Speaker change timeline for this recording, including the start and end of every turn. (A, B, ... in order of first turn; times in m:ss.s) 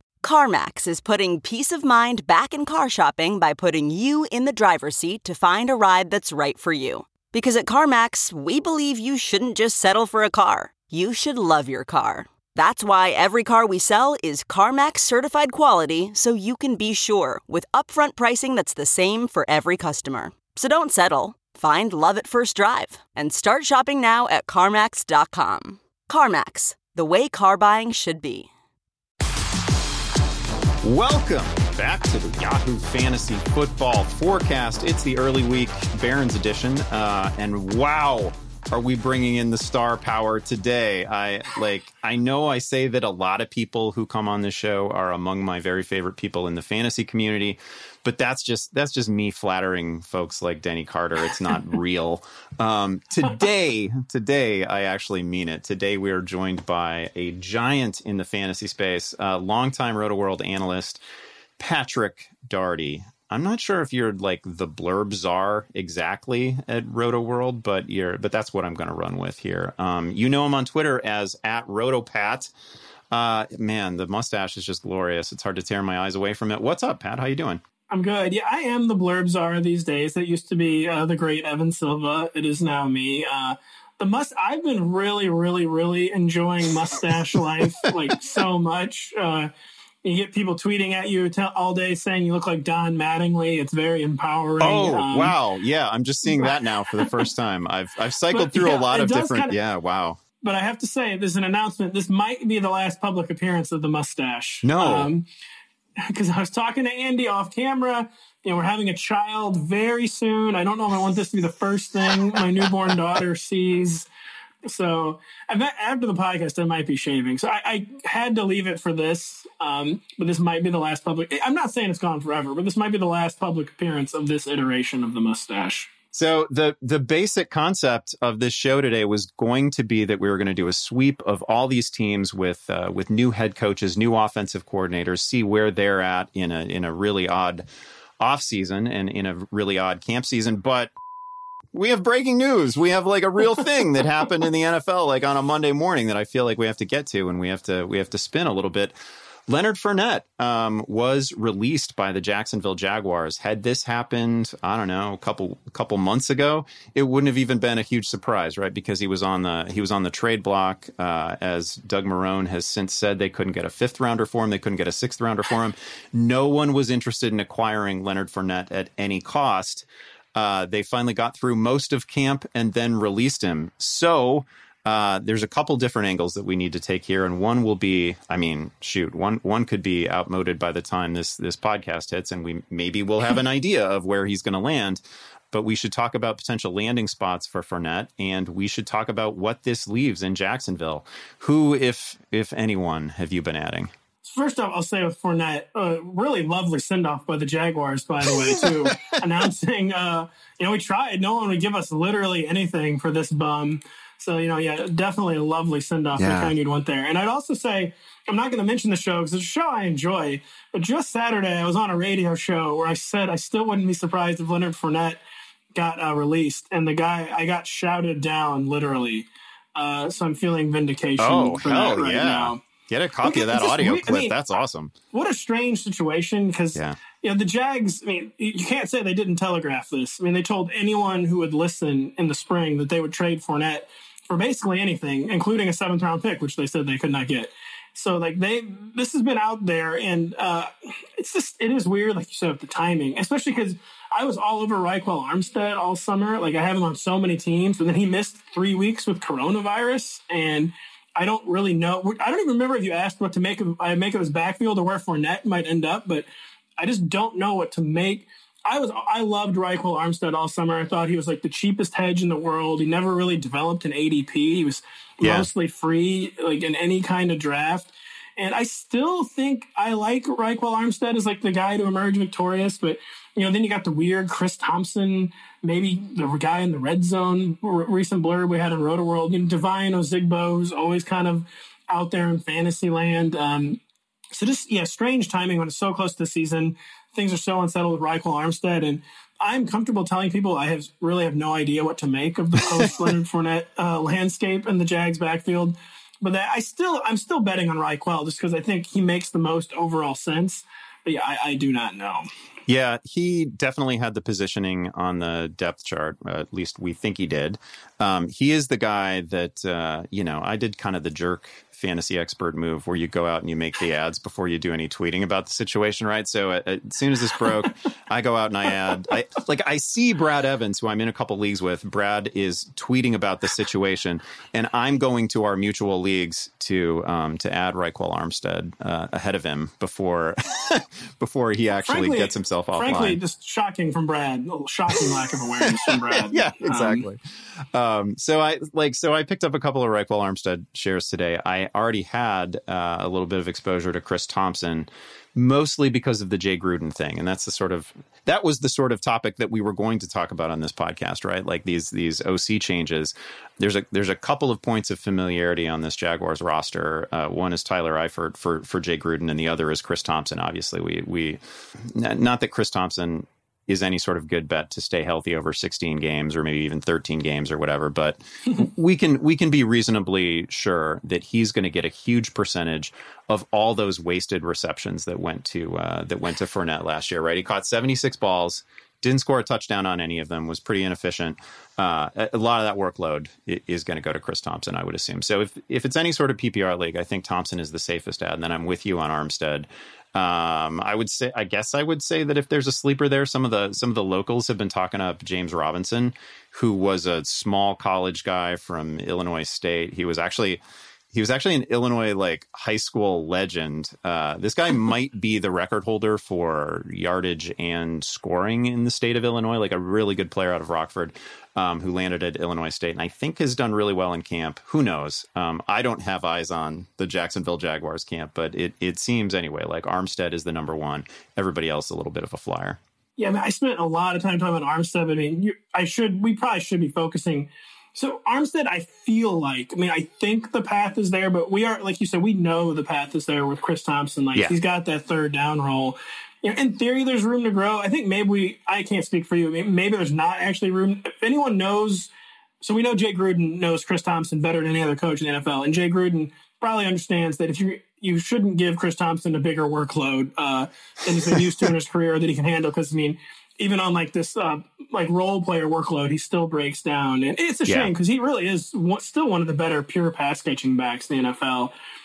0:00.2-0:28.5 A
0:30.8-1:01.0 B
1:01.6-1:12.5 B
1:13.1-1:17.6 B
1:17.9-1:29.5 C
1:30.0-1:35.4 C
1:34.6-1:40.2 B
1:36.3-1:37.3 C
1:38.3-1:39.6 C
1:40.4-1:45.3 C
1:44.6-1:45.1 B
1:46.0-1:54.1 C
1:52.1-1:53.0 B
1:54.7-2:05.9 C
2:06.1-2:17.6 B
2:18.2-2:20.9 B
2:21.7-2:28.9 B
2:29.5-3:13.9 B
3:14.3-3:35.2 C
3:18.2-3:19.2 B
3:26.2-3:26.5 B
3:35.8-3:42.6 C
3:41.2-3:44.9 B
3:43.2-3:44.4 C
3:45.1-4:16.3 C
4:16.8-4:43.8 C
4:25.2-4:25.5 B
4:44.3-5:02.3 C
4:52.6-4:53.0 B
5:02.7-5:33.2 B
5:31.8-5:37.0 C
5:34.9-6:40.6 B
6:41.1-7:02.8 B
7:03.2-7:41.7 C
7:37.7-7:37.9 B